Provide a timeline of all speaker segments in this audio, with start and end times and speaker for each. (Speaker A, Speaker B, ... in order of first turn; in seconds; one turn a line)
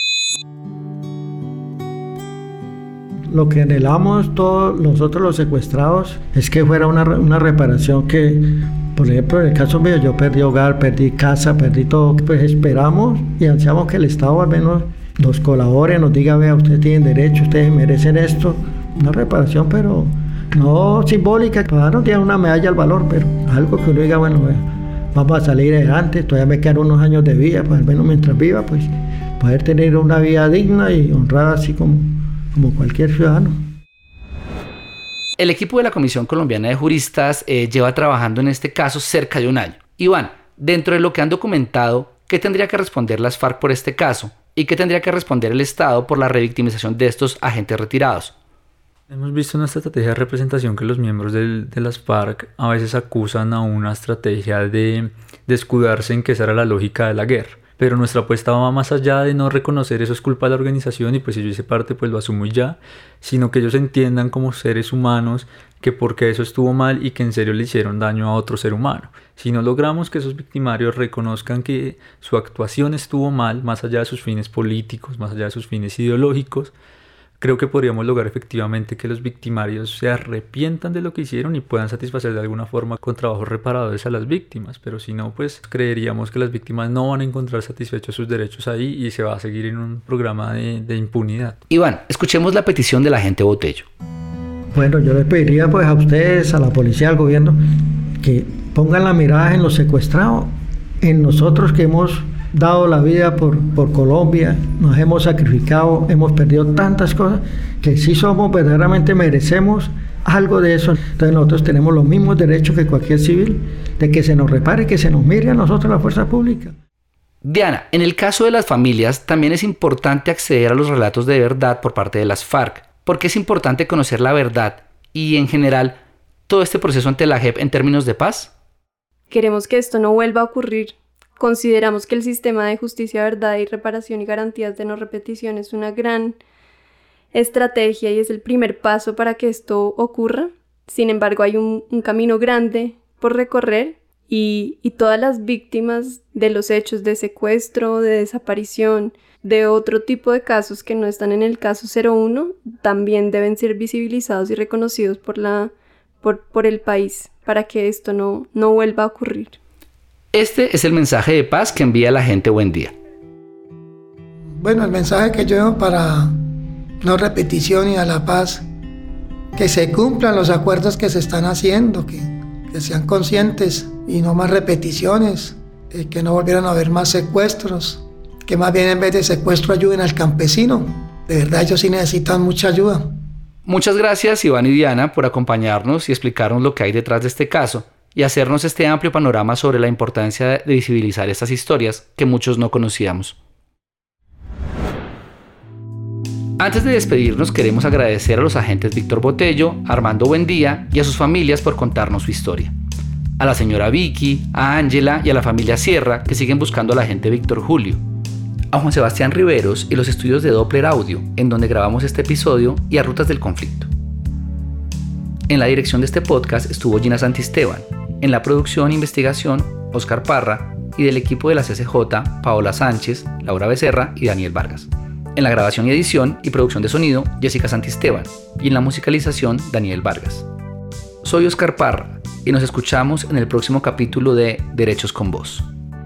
Speaker A: 3.3-33.7
Speaker B: 35.4-48.3
Speaker C: 49.1-76.7
Speaker C: 77.4-91.6
Speaker B: 91.7-93.9
Speaker A: 94.7-116.8
Speaker B: 117.4-128.5
Speaker D: 129.3-136.4
Speaker D: 137.3-159.6
Speaker B: 160.3-162.9
Speaker E: 164.6-166.4
Speaker E: 167.0-168.6
Speaker E: 169.6-183.1
Speaker B: 183.7-193.3
Speaker B: 196.6-202.7
Speaker B: 203.4-208.0
Speaker B: 208.7-213.9
Speaker B: 215.5-230.5
Speaker B: 231.2-235.7